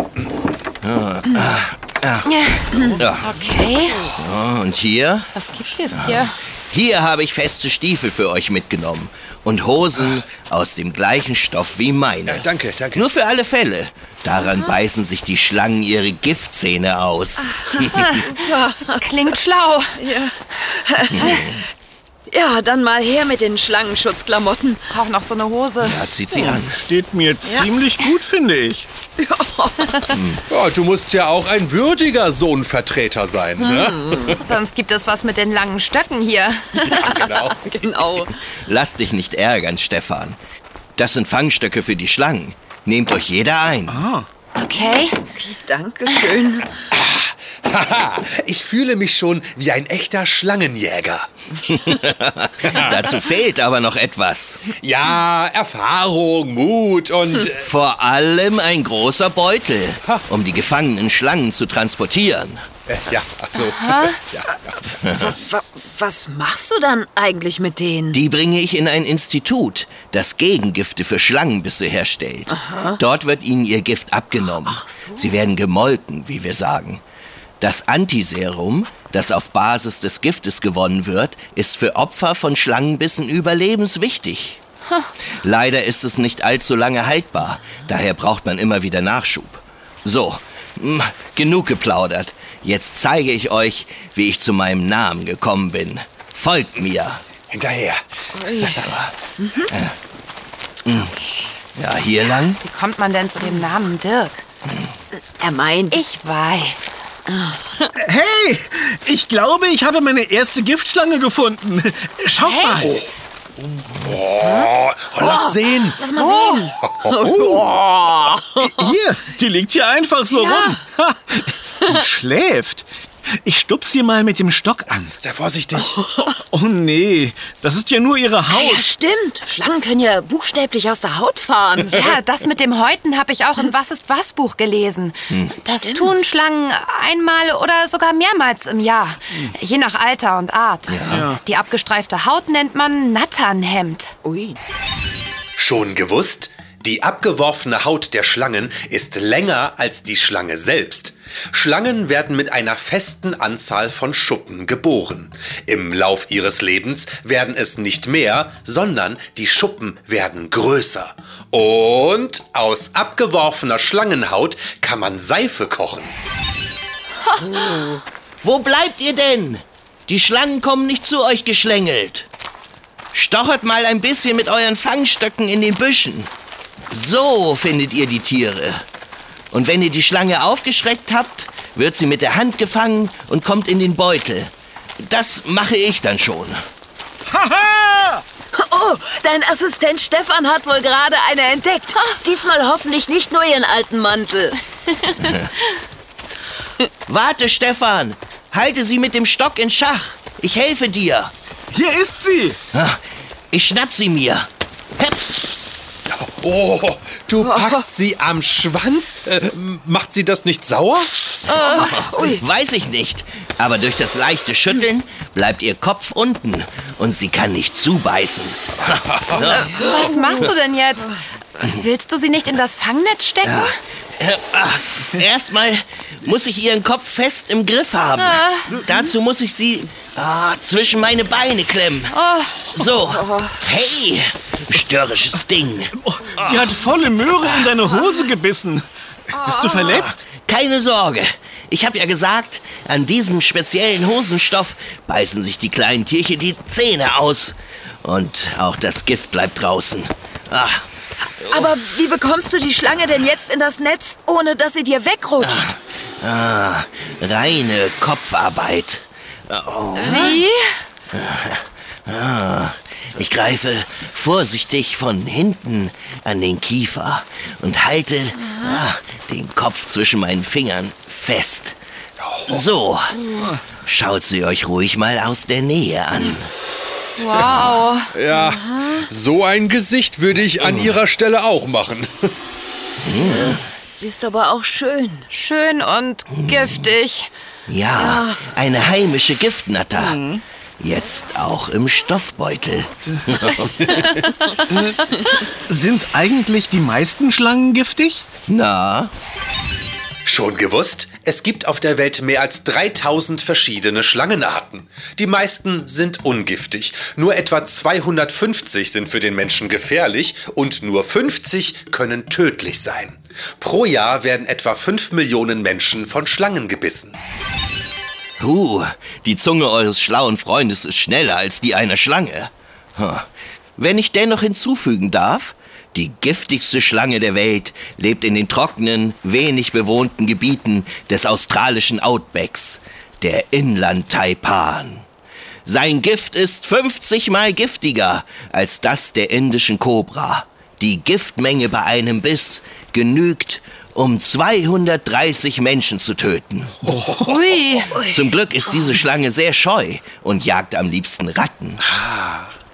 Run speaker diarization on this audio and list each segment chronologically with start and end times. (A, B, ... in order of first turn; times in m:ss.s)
0:00.8-0:03.4 A
0:02.3-0:04.2 B
0:02.7-0:03.0 C
0:04.1-0:05.3 A
0:05.4-0:06.4 B
0:05.9-0:18.2 A
0:12.3-0:13.0 C
0:17.6-0:19.1 D
0:18.0-0:18.2 B
0:19.0-0:20.0 B
0:20.0-0:21.4 D
0:21.1-0:21.6 A
0:22.3-0:24.8 D
0:24.9-0:26.0 B
0:25.8-0:26.8 A
0:26.3-0:28.9 E
0:29.2-0:30.2 D
0:30.1-0:30.4 A
0:30.5-0:34.4 C
0:33.6-0:34.3 D
0:34.4-0:37.3 B
0:37.1-0:37.6 C
0:37.1-0:38.3 D
0:38.6-0:40.4 A
0:41.0-0:44.0 A
0:43.9-0:44.3 E
0:44.6-0:45.2 B
0:45.3-0:46.7 D
0:46.9-0:51.3 C
0:51.6-0:54.7 A
0:52.6-0:52.9 C
0:54.8-0:57.7 C
0:57.5-1:02.6 A
1:02.9-1:04.6 C
1:03.6-1:04.2 B
1:05.0-1:05.4 A
1:05.2-1:08.2 D
1:08.1-1:17.0 A
1:14.7-1:15.2 D
1:17.6-1:24.6 A
1:25.4-1:37.2 A
1:37.5-1:38.9 C
1:38.4-1:38.8 D
1:38.8-1:39.1 A
1:39.4-1:39.7 D
1:39.7-1:40.0 A
1:40.8-1:41.1 A
1:41.8-1:42.6 A
1:42.6-1:44.4 B
1:45.4-1:45.9 D
1:45.9-1:47.0 B
1:47.3-1:47.9 D
1:48.0-1:53.0 E
1:52.4-1:53.0 B
1:52.8-1:53.1 C
1:53.6-1:57.6 C
1:55.3-1:58.8 D
1:58.6-2:02.8 E
2:00.3-2:00.8 D
2:03.4-2:05.1 E
2:05.2-2:06.0 C
2:06.5-2:08.9 E
2:08.5-2:12.0 D
2:11.9-2:24.1 B
2:15.3-2:15.6 A
2:15.8-2:16.2 D
2:20.9-2:21.3 A
2:21.1-2:21.4 E
2:24.2-2:24.6 D
2:25.6-2:46.2 C
2:47.4-2:47.8 B
2:48.4-2:52.3 A
2:53.1-2:56.3 A
2:56.9-2:58.8 A
2:59.5-3:06.6 A
3:07.3-3:08.2 E
3:08.5-3:14.6 D
3:15.0-3:15.4 B
3:15.2-3:15.5 A
3:17.1-3:21.3 A
3:21.7-3:22.6 E
3:22.7-3:25.6 A
3:26.1-3:31.4 C
3:27.6-3:27.8 D
3:31.4-3:40.1 A
3:39.4-3:43.7 B
3:43.4-3:52.2 A
3:48.2-3:48.7 B
3:48.7-3:49.0 E
3:52.1-3:52.7 B
3:52.7-3:56.7 A
3:56.0-4:00.2 E
3:59.8-4:10.9 A
4:11.5-4:15.6 D
4:15.4-4:20.4 A
4:20.0-4:20.8 B
4:21.1-4:31.8 A
4:32.2-4:32.6 C
4:32.5-4:33.2 A
4:33.3-4:33.6 E
4:33.8-4:36.5 A
4:37.2-4:38.1 B
4:37.4-4:37.7 A
4:38.1-4:42.3 C
4:38.5-4:39.0 D
4:40.6-4:40.9 A
4:43.0-4:43.6 A
4:43.3-4:45.3 D
4:45.3-4:47.3 B
4:46.3-4:46.9 A
4:47.7-4:50.2 A
4:48.0-4:48.4 D
4:50.0-4:50.4 E
4:50.8-4:53.7 A
4:54.6-4:58.2 E
4:58.5-4:59.1 A
5:00.2-5:17.2 C
5:18.4-5:35.0 A
5:35.6-5:46.9 A
5:47.2-5:48.0 B
5:48.0-5:51.8 A
5:51.9-5:52.5 C